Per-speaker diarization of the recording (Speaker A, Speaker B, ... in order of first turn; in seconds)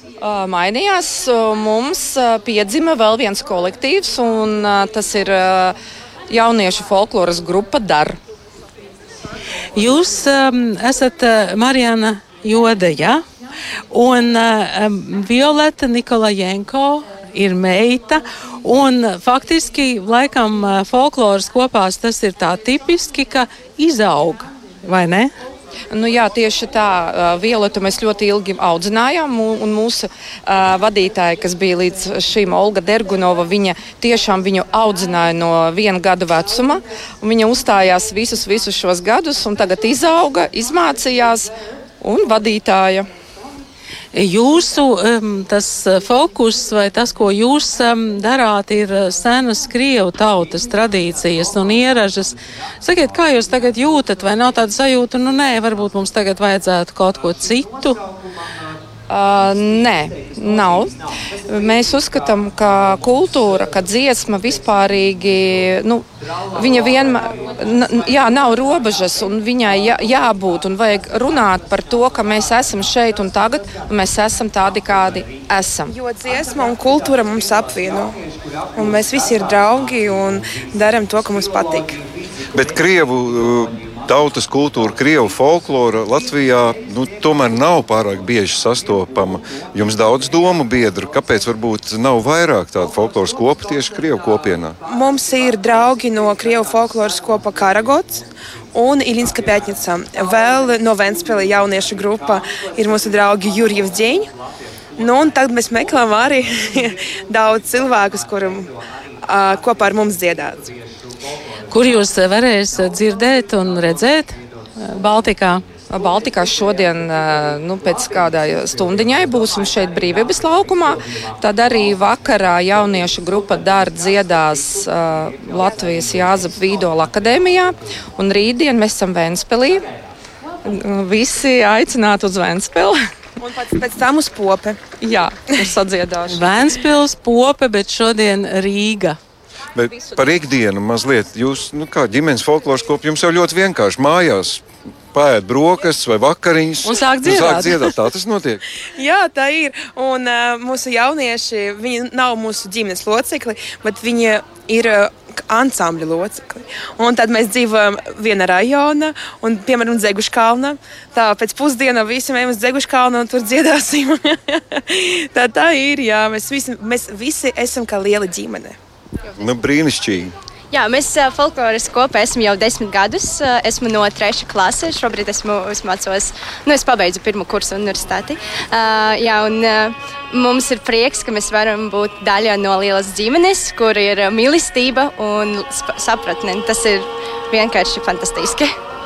Speaker A: 0.2-5.7, 6.3-8.2, 25.9-43.1, 59.1-60.9, 61.5-75.9, 115.9-129.8, 130.7-133.0, 134.9-136.2
Speaker B: 9.8-13.2, 13.9-25.3, 44.1-58.0, 111.7-115.6, 136.3-139.2, 146.8-147.9
Speaker C: 76.2-78.1, 78.8-81.9, 94.9-98.2, 98.7-104.2, 105.0-106.4, 107.3-108.7, 109.3-110.5, 133.5-134.8, 149.0-164.0, 165.4-168.7
Speaker D: 82.5-94.8, 139.7-148.6, 169.3-170.3
Speaker E: 170.7-188.7